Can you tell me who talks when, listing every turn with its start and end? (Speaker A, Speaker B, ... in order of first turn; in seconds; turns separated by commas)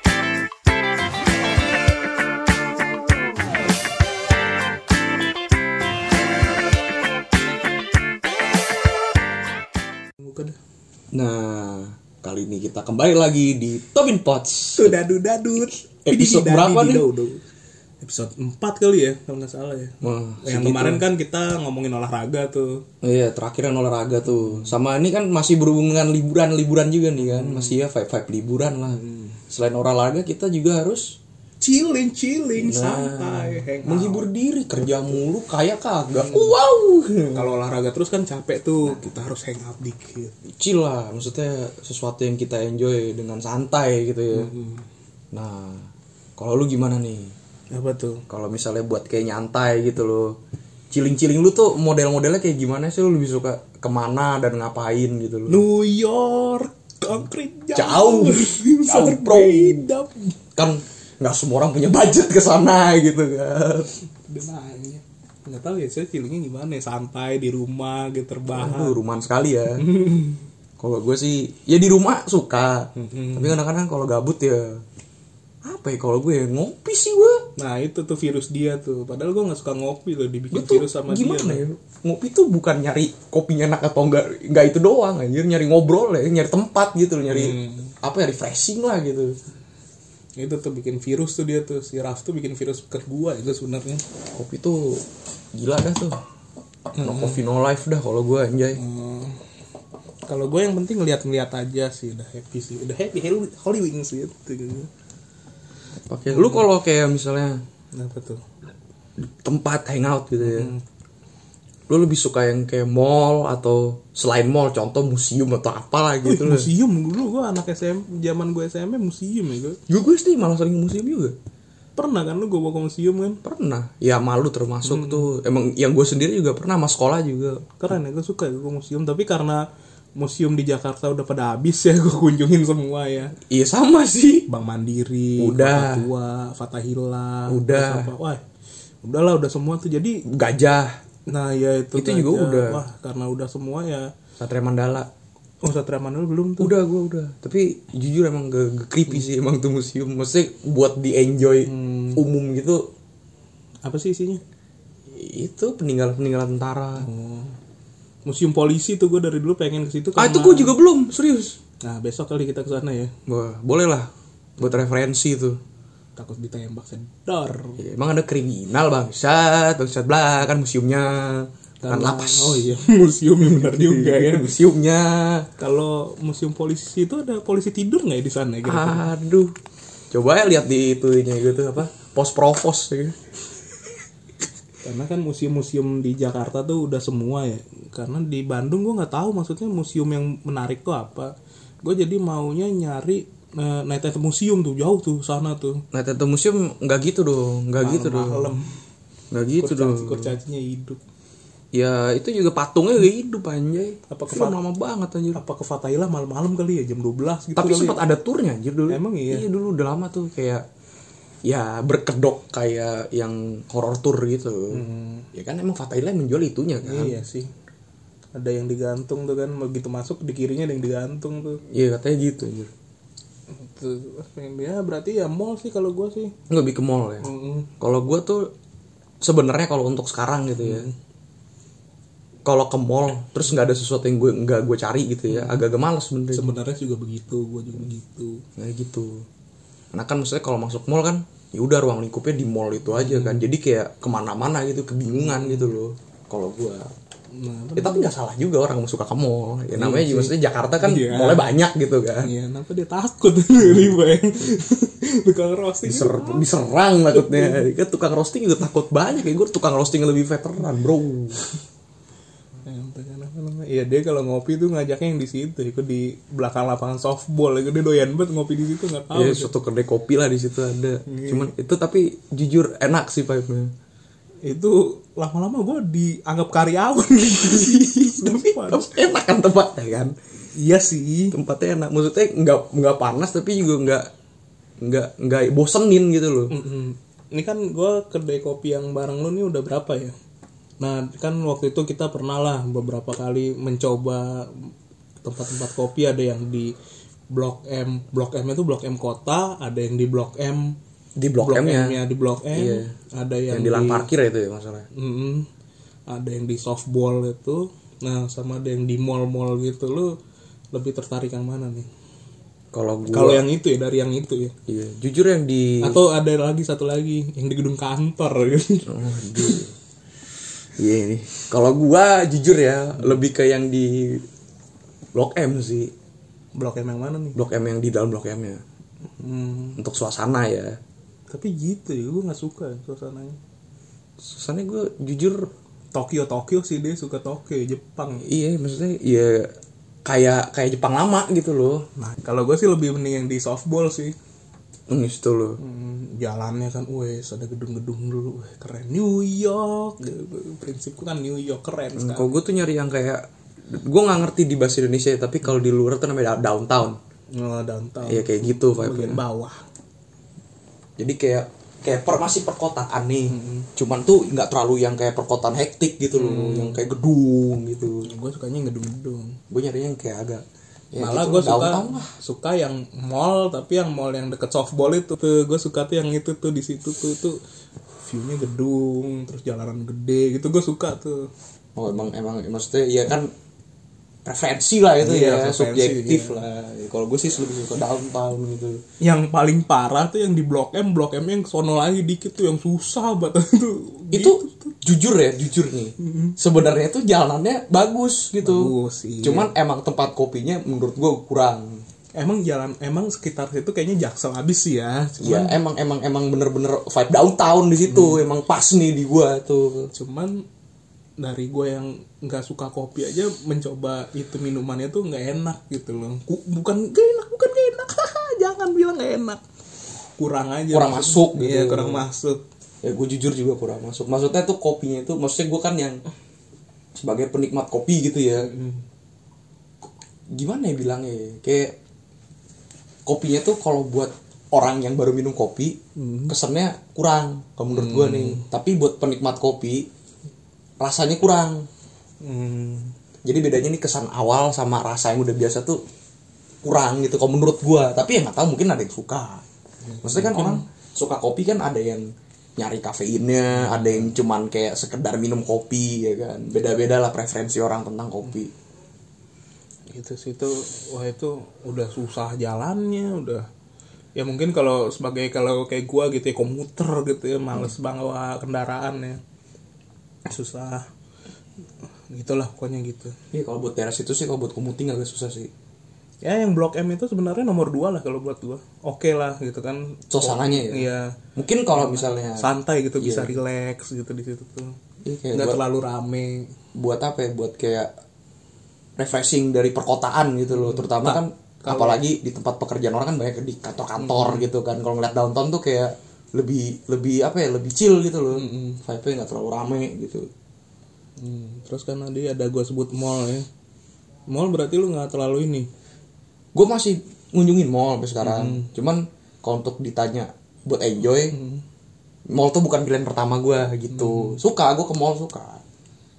Speaker A: 10.2-10.6, Speaker B: 11.1-14.9, Speaker A: 14.8-17.4, Speaker B: 16.1-17.1, Speaker A: 18.0-22.8, Speaker B: 20.0-21.0, Speaker B: 23.0-31.1, Speaker A: 24.4-24.6, Speaker A: 27.2-27.8, Speaker A: 28.9-29.4, Speaker A: 31.6-34.3, Speaker B: 32.5-37.5, Speaker A: 36.1-36.5, Speaker A: 37.3-40.3, Speaker B: 40.6-44.5, Speaker A: 44.3-44.8, Speaker B: 45.3-47.3, Speaker A: 47.7-48.2, Speaker B: 48.3-50.3, Speaker B: 50.9-55.6, Speaker A: 55.5-60.4, Speaker B: 57.7-59.9, Speaker B: 60.5-63.9, Speaker A: 64.2-69.0, Speaker B: 68.5-69.9, Speaker A: 69.8-70.5, Speaker B: 70.8-74.8, Speaker A: 73.0-73.6, Speaker B: 75.6-77.5, Speaker A: 77.6-81.6, Speaker B: 80.5-89.3, Speaker A: 87.3-87.9, Speaker A: 90.4-94.0, Speaker B: 94.3-95.0, Speaker B: 95.5-96.2, Speaker B: 97.0-98.8, Speaker A: 97.0-97.4, Speaker A: 98.7-99.4, Speaker A: 100.3-104.9, Speaker B: 106.1-107.6, Speaker A: 106.3-106.7, Speaker A: 107.9-108.4, Speaker B: 109.2-110.7, Speaker A: 110.4-110.8, Speaker B: 111.9-116.7, Speaker A: 116.2-119.8, Speaker B: 119.9-121.3, Speaker A: 122.0-123.4, Speaker B: 123.4-127.8, Speaker A: 124.8-125.3, Speaker A: 127.8-129.6, Speaker A: 130.2-133.3, Speaker B: 133.4-134.5, Speaker A: 134.5-138.4, Speaker B: 135.4-136.1, Speaker B: 137.5-138.1, Speaker A: 139.0-140.2, Speaker B: 140.3-141.0, Speaker A: 141.3-144.1, Speaker B: 141.9-142.8, Speaker B: 144.4-145.1, Speaker A: 145.6-146.7, Speaker B: 146.6-152.8, Speaker A: 151.7-152.2, Speaker A: 153.8-154.4, Speaker B: 155.1-157.1, Speaker A: 157.0-157.6, Speaker A: 158.2-160.8, Speaker B: 160.2-161.6, Speaker A: 161.8-163.1, Speaker B: 163.3-165.6, Speaker A: 166.2-167.8, Speaker B: 167.8-172.7, Speaker A: 171.8-174.5, Speaker B: 173.4-175.5, Speaker A: 175.6-179.1, Speaker B: 178.6-179.5, Speaker B: 180.1-183.2, Speaker A: 184.8-191.3, Speaker A: 191.8-195.8, Speaker B: 195.9-198.6, Speaker A: 197.8-198.7, Speaker B: 199.3-200.4, Speaker A: 199.6-201.0, Speaker B: 201.7-205.4, Speaker A: 204.1-204.6, Speaker A: 205.3-208.0, Speaker B: 207.6-210.6, Speaker A: 208.9-209.5, Speaker B: 211.4-217.2, Speaker A: 214.7-215.3, Speaker A: 216.8-217.5, Speaker A: 218.3-221.6, Speaker B: 221.7-222.7, Speaker A: 223.5-226.3, Speaker B: 226.5-227.3, Speaker A: 227.2-227.7, Speaker B: 227.8-228.5, Speaker B: 229.2-230.9, Speaker A: 230.6-230.9, Speaker B: 232.4-236.5, Speaker A: 235.3-235.6, Speaker A: 236.3-238.4, Speaker B: 238.6-239.2, Speaker B: 239.9-246.9, Speaker A: 242.9-243.5, Speaker A: 245.2-245.7, Speaker A: 247.3-248.1, Speaker B: 247.8-252.3, Speaker A: 249.7-251.6, Speaker A: 252.2-256.5, Speaker B: 253.6-253.9, Speaker B: 255.8-261.4, Speaker A: 257.1-257.6, Speaker A: 262.6-269.5, Speaker B: 269.1-273.7, Speaker A: 271.1-271.5, Speaker A: 274.4-278.9, Speaker B: 277.3-280.1, Speaker A: 280.5-281.3, Speaker B: 281.3-284.1, Speaker B: 284.8-286.5, Speaker A: 286.5-290.1, Speaker A: 290.8-294.7, Speaker A: 295.2-296.7, Speaker A: 297.3-300.8, Speaker B: 301.1-302.9, Speaker A: 301.4-304.1, Speaker B: 303.5-304.9, Speaker A: 304.9-305.5, Speaker A: 306.1-310.1, Speaker A: 310.7-311.9, Speaker B: 312.7-313.4, Speaker A: 313.1-314.5, Speaker B: 314.7-316.0, Speaker A: 315.8-319.6, Speaker B: 318.9-319.7, Speaker B: 320.8-324.2, Speaker B: 325.1-325.9, Speaker A: 326.6-327.4, Speaker B: 327.3-328.6, Speaker A: 329.2-329.8, Speaker B: 329.8-330.8, Speaker A: 331.3-333.4, Speaker B: 334.2-335.5, Speaker A: 335.9-338.2, Speaker B: 338.2-339.5, Speaker B: 340.1-341.8, Speaker A: 342.0-344.1, Speaker B: 344.9-345.6, Speaker A: 345.6-352.4, Speaker B: 351.9-357.0, Speaker A: 357.3-359.6, Speaker B: 358.0-359.2, Speaker B: 361.0-368.1, Speaker A: 363.3-363.7, Speaker A: 366.1-366.8, Speaker A: 368.0-369.4, Speaker B: 369.5-372.1, Speaker A: 370.9-377.4, Speaker A: 378.0-381.2, Speaker B: 381.8-383.3, Speaker B: 384.2-388.8, Speaker A: 385.0-386.4, Speaker A: 389.0-394.7, Speaker B: 394.1-401.8, Speaker A: 398.4-399.5, Speaker A: 402.2-405.6, Speaker B: 405.2-409.9, Speaker A: 407.9-408.2, Speaker A: 409.9-410.4, Speaker A: 411.2-419.4, Speaker A: 420.2-422.4, Speaker B: 420.7-422.0, Speaker B: 422.8-426.0, Speaker B: 426.9-428.5, Speaker A: 428.4-428.8, Speaker B: 430.3-431.8, Speaker B: 433.1-439.9, Speaker A: 435.9-436.4, Speaker A: 437.7-438.4, Speaker B: 440.8-441.7, Speaker A: 442.2-442.9, Speaker B: 443.2-445.8, Speaker B: 446.6-449.4, Speaker A: 449.8-450.6, Speaker B: 450.0-458.5, Speaker A: 453.6-454.1, Speaker A: 459.9-463.5, Speaker A: 464.1-469.2, Speaker A: 470.3-470.8, Speaker A: 472.1-473.1, Speaker B: 473.3-475.5, Speaker A: 476.2-481.2, Speaker B: 480.1-482.4, Speaker A: 481.7-484.7, Speaker B: 483.0-483.4, Speaker B: 485.0-485.6, Speaker A: 485.3-486.5, Speaker B: 486.7-487.9, Speaker B: 489.0-500.3, Speaker A: 490.5-492.0, Speaker A: 494.0-494.5, Speaker A: 498.3-498.8, Speaker A: 501.2-503.4, Speaker A: 504.3-505.7, Speaker B: 506.5-511.4, Speaker A: 508.2-508.7, Speaker A: 511.2-511.6, Speaker B: 512.3-515.6, Speaker A: 513.9-514.4